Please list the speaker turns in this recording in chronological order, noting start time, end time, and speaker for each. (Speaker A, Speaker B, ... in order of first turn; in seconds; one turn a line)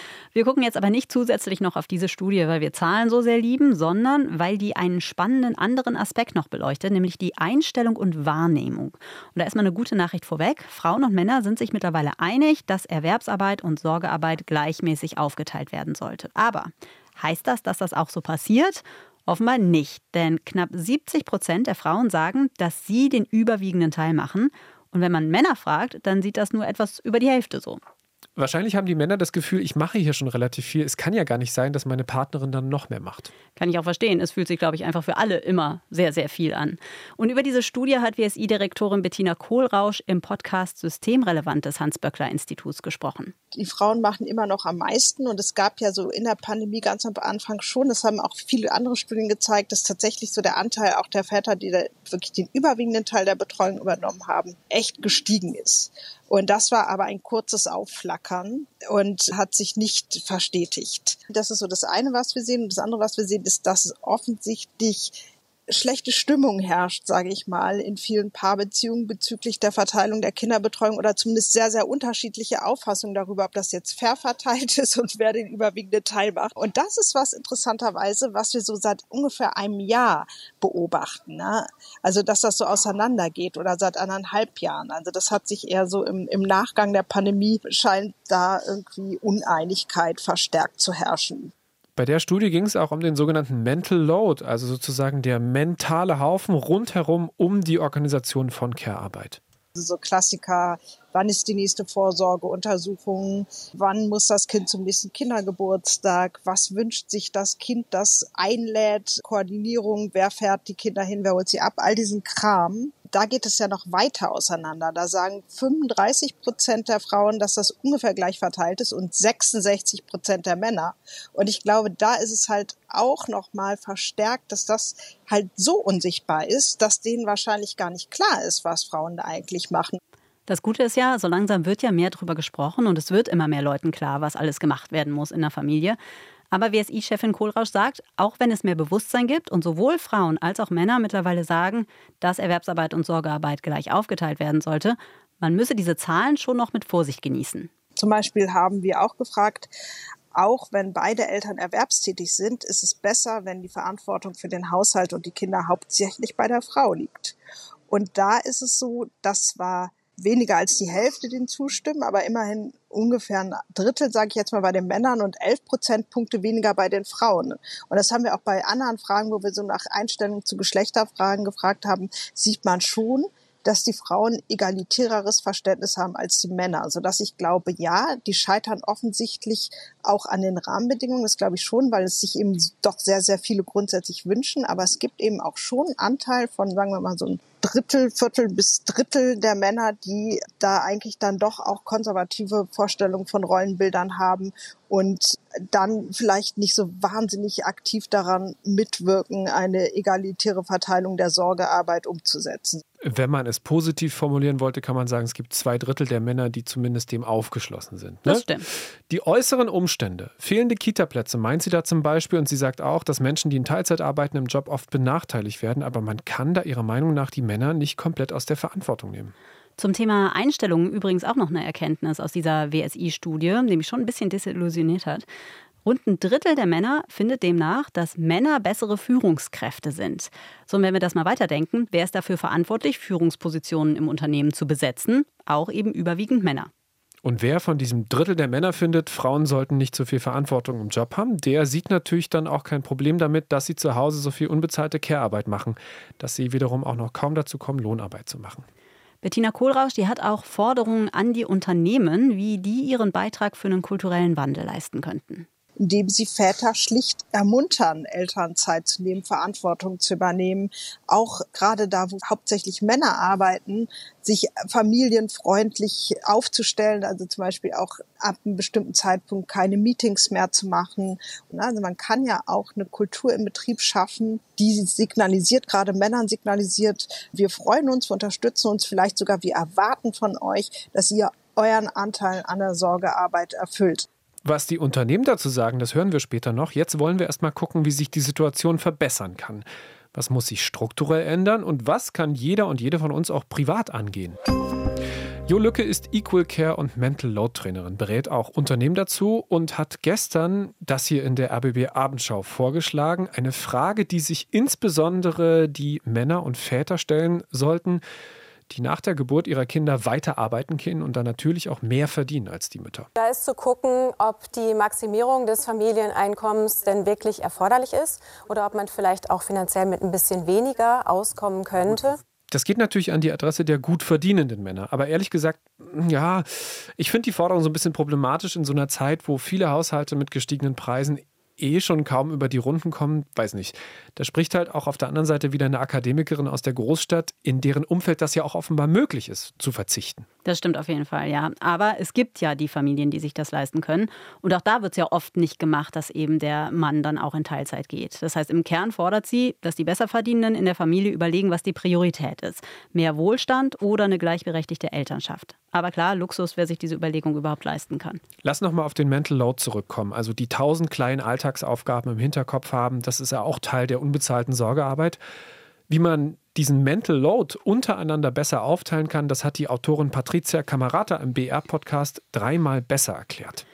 Speaker A: 0.3-27.8
Speaker B: 28.4-33.3
Speaker A: 33.6-43.3
Speaker C: 43.5-65.2
Speaker C: 65.7-91.5
Speaker B: 92.0-99.4
Speaker C: 99.8-130.0
Speaker A: 130.5-136.0
Speaker A: 136.5-147.7
Speaker C: 148.0-149.7
Speaker C: 150.3-157.4
Speaker C: 157.9-202.8
Speaker B: 203.0-208.5
Speaker A: 208.3-208.7
Speaker B: 209.1-219.3
Speaker A: 219.8-225.3
Speaker A: 225.8-236.7
Speaker B: 237.2-248.6
Speaker A: 249.2-255.5
Speaker C: 255.8-284.1
Speaker B: 284.4-294.4
Speaker B: 295.5-308.0
Speaker B: 308.7-313.1
Speaker D: 313.1-322.2
Speaker B: 322.5-340.3
Speaker A: 340.4-358.2
Speaker B: 358.4-365.2
Speaker B: 365.9-373.6